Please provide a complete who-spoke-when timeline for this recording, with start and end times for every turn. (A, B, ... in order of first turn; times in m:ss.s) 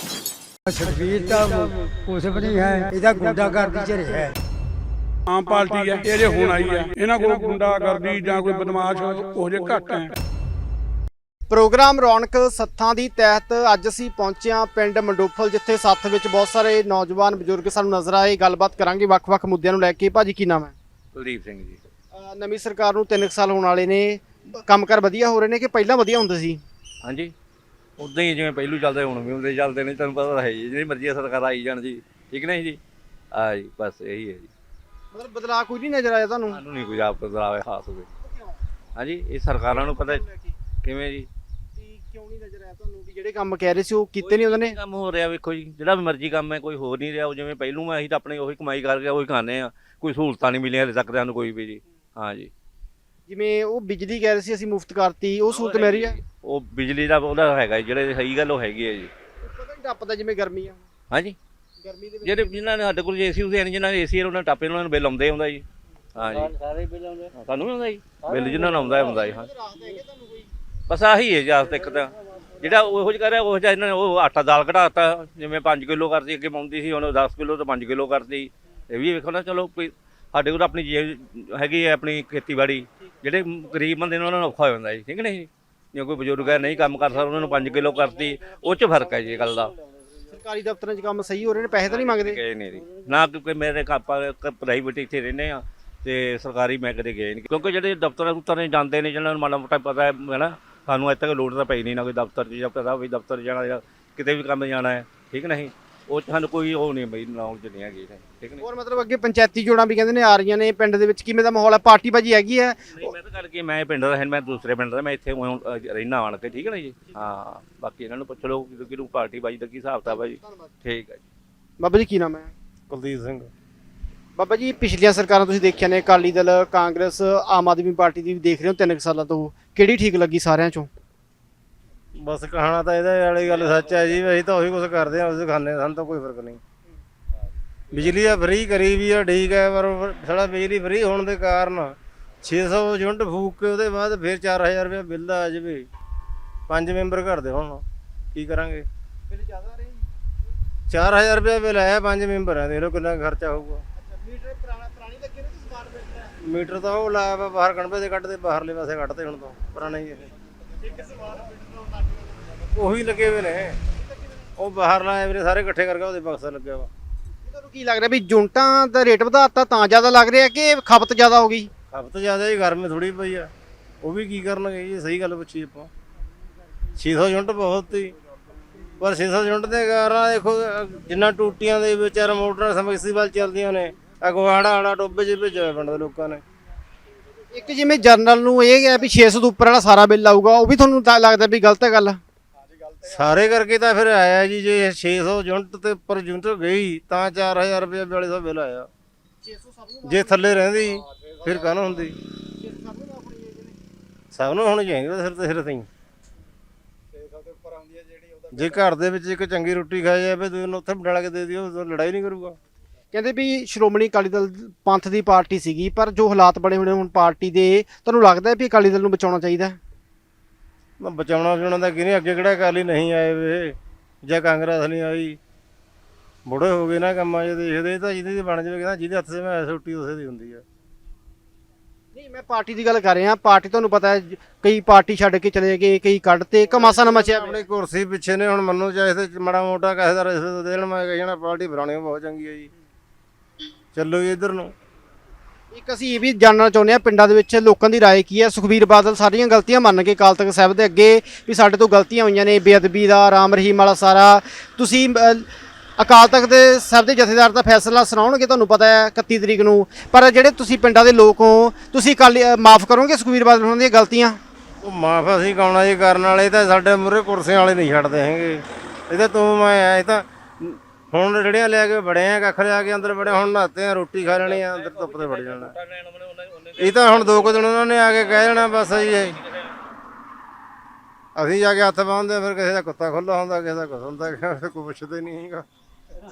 0:00.7-0:04.4 A
0:05.3-0:10.2 B
0:11.5-0:20.7 C
0:21.2-0:21.8 D
0:22.1-0:26.6 C
0:27.0-0:27.3 D
0:28.0-0:32.8 D
0:33.3-0:34.5 D
0:35.1-0:36.6 C
0:36.5-0:38.1 D
0:38.2-0:38.6 C
0:39.0-0:40.2 D
0:39.7-0:40.6 C
0:40.8-0:41.3 D
0:41.8-0:44.8 C
0:44.2-0:52.5 D
0:53.3-0:56.2 C
0:55.5-0:59.1 D
0:59.4-1:00.8 C
1:01.1-1:01.4 D
1:01.8-1:02.5 C
1:02.2-1:05.6 D
1:06.2-1:06.6 D
1:06.4-1:07.3 E
1:07.3-1:09.5 D
1:08.3-1:09.0 E
1:09.3-1:10.5 C
1:10.9-1:29.7 D
1:30.3-1:32.4 C
1:31.9-1:48.6 D
1:48.6-1:53.2 C
1:53.0-2:01.2 D
2:01.8-2:02.5 C
2:02.9-2:03.5 E
2:04.4-2:10.9 C
2:12.2-2:16.6 E
2:17.9-2:25.9 E
2:26.7-2:27.8 E
2:28.4-2:28.9 E
2:29.3-2:30.0 C
2:30.9-2:33.8 E
2:34.0-2:36.3 C
2:36.4-2:40.3 E
2:40.9-2:42.1 C
2:42.7-2:43.8 E
2:44.6-2:46.9 E
2:47.5-2:51.7 C
2:51.9-2:53.5 E
2:54.0-2:55.9 E
2:57.0-2:58.2 E
2:59.0-3:06.4 E
3:07.5-3:12.2 C
3:13.0-3:18.9 E
3:19.4-3:20.4 C
3:20.1-3:22.2 E
3:22.5-3:23.8 C
3:24.3-3:25.9 E
3:28.5-3:32.6 E
3:33.1-3:39.8 C
3:41.0-3:45.4 E
3:46.4-3:50.6 E
3:52.1-3:57.6 C
3:56.7-4:02.7 E
4:03.9-4:04.7 E
4:05.7-4:24.4 C
4:24.8-4:35.7 E
4:34.4-4:37.7 D
4:36.8-4:39.4 E
4:38.3-4:39.5 D
4:41.4-4:45.7 E